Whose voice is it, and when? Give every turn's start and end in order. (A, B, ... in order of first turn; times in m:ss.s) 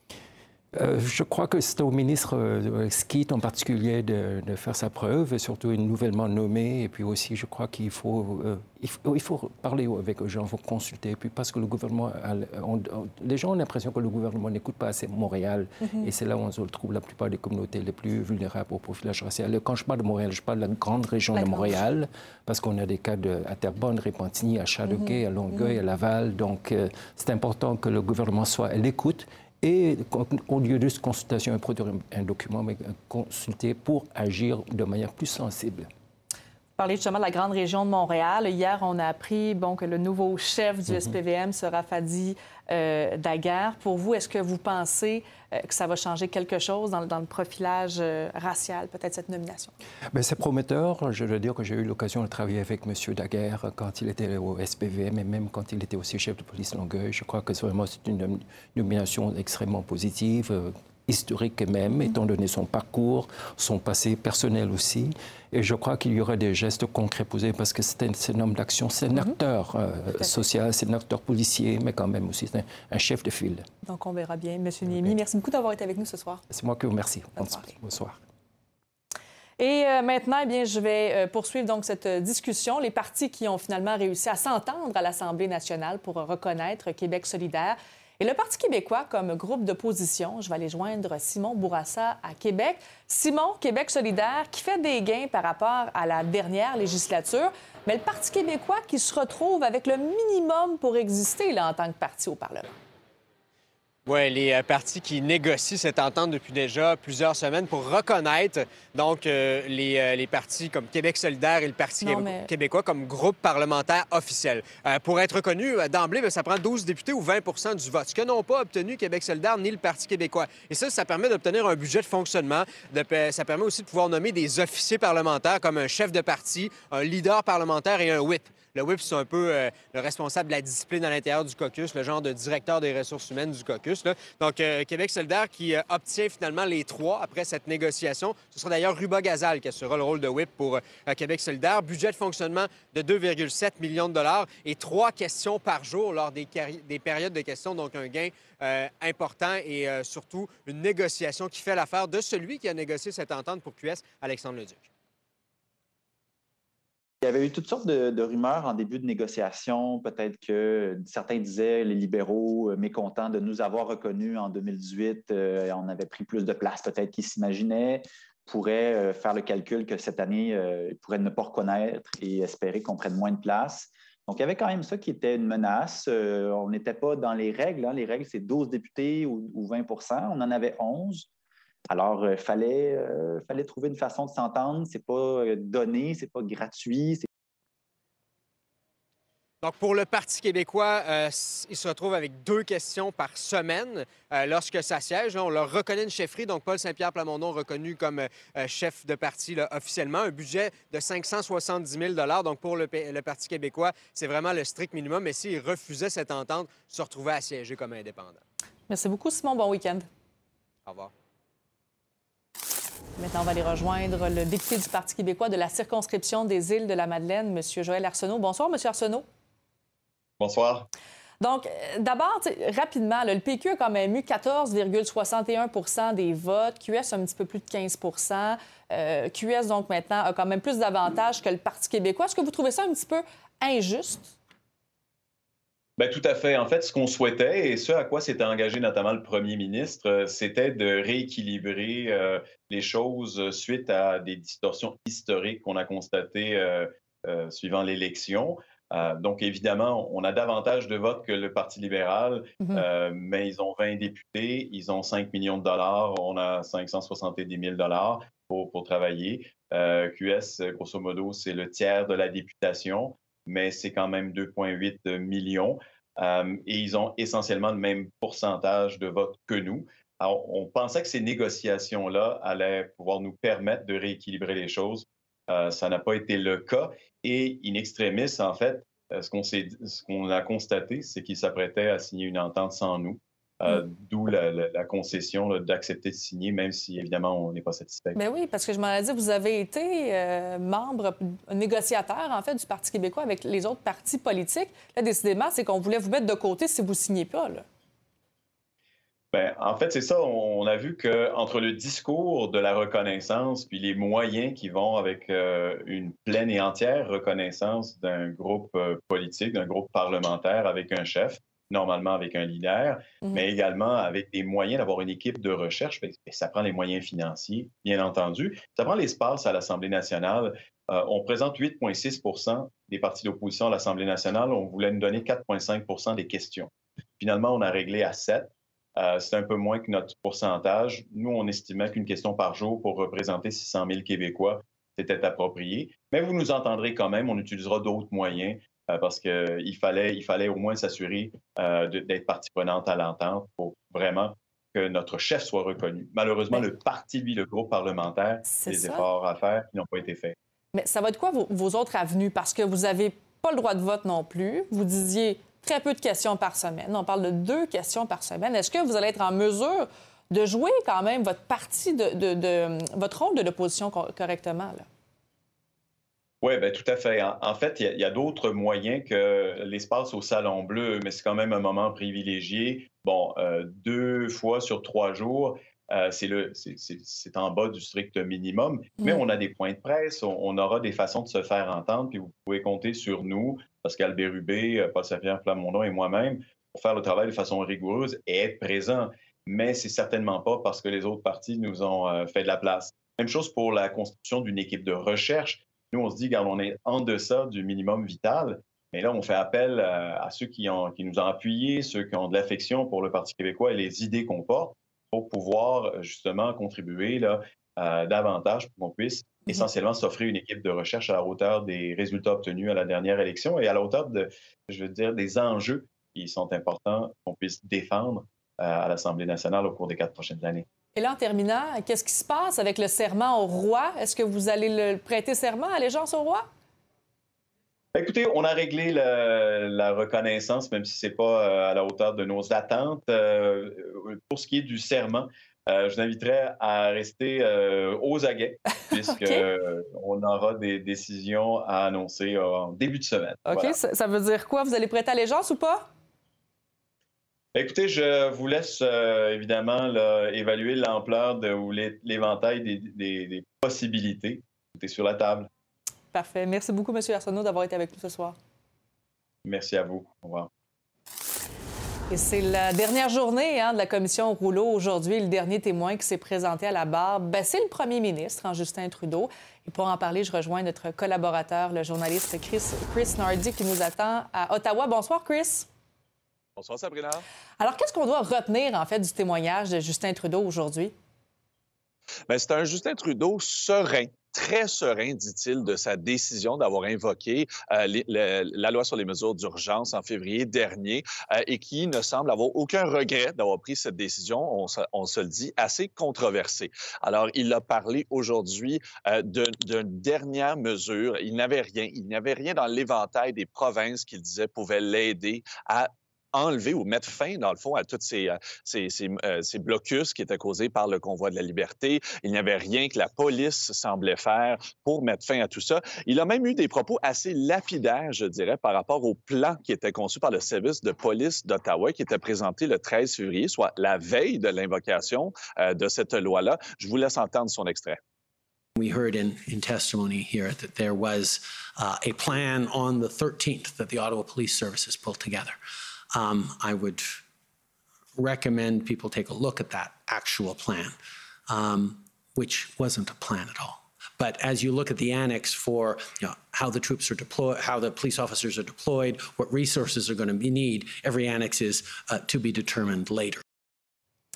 0:00.7-0:35.9 A
0:21.4-0:21.8 B
0:24.9-0:25.8 B
0:36.8-0:49.7 B
0:40.9-0:41.1 A
0:50.1-1:13.6 A
1:13.8-1:16.4 B
1:14.9-1:15.2 A
1:16.5-1:18.2 A
1:17.4-1:17.7 B
1:19.6-1:42.7 B
1:44.1-2:34.9 C
1:52.0-1:52.5 B
2:37.2-3:01.3 D
3:01.9-3:07.3 D
3:09.6-3:28.4 C
3:28.9-3:30.1 B
3:30.9-3:31.1 C
3:33.2-3:39.2 B
3:40.4-3:40.9 E
3:41.4-3:54.3 B
3:56.0-4:48.2 E
4:48.2-4:57.6 B
4:59.3-5:50.4 E
5:48.5-5:49.0 B
5:50.7-6:04.8 B
6:06.4-7:00.6 E
7:01.0-7:06.5 B
7:08.0-7:23.8 E
7:23.5-7:25.9 B
7:27.6-7:35.5 E
7:36.1-7:38.4 B
7:39.4-7:40.5 E
7:42.1-7:55.7 B
7:56.6-7:57.2 F
7:57.6-8:00.9 B
8:02.3-8:48.0 F
8:48.8-8:55.6 G
8:56.1-8:57.2 G
8:58.2-9:01.0 G
9:01.5-9:13.4 G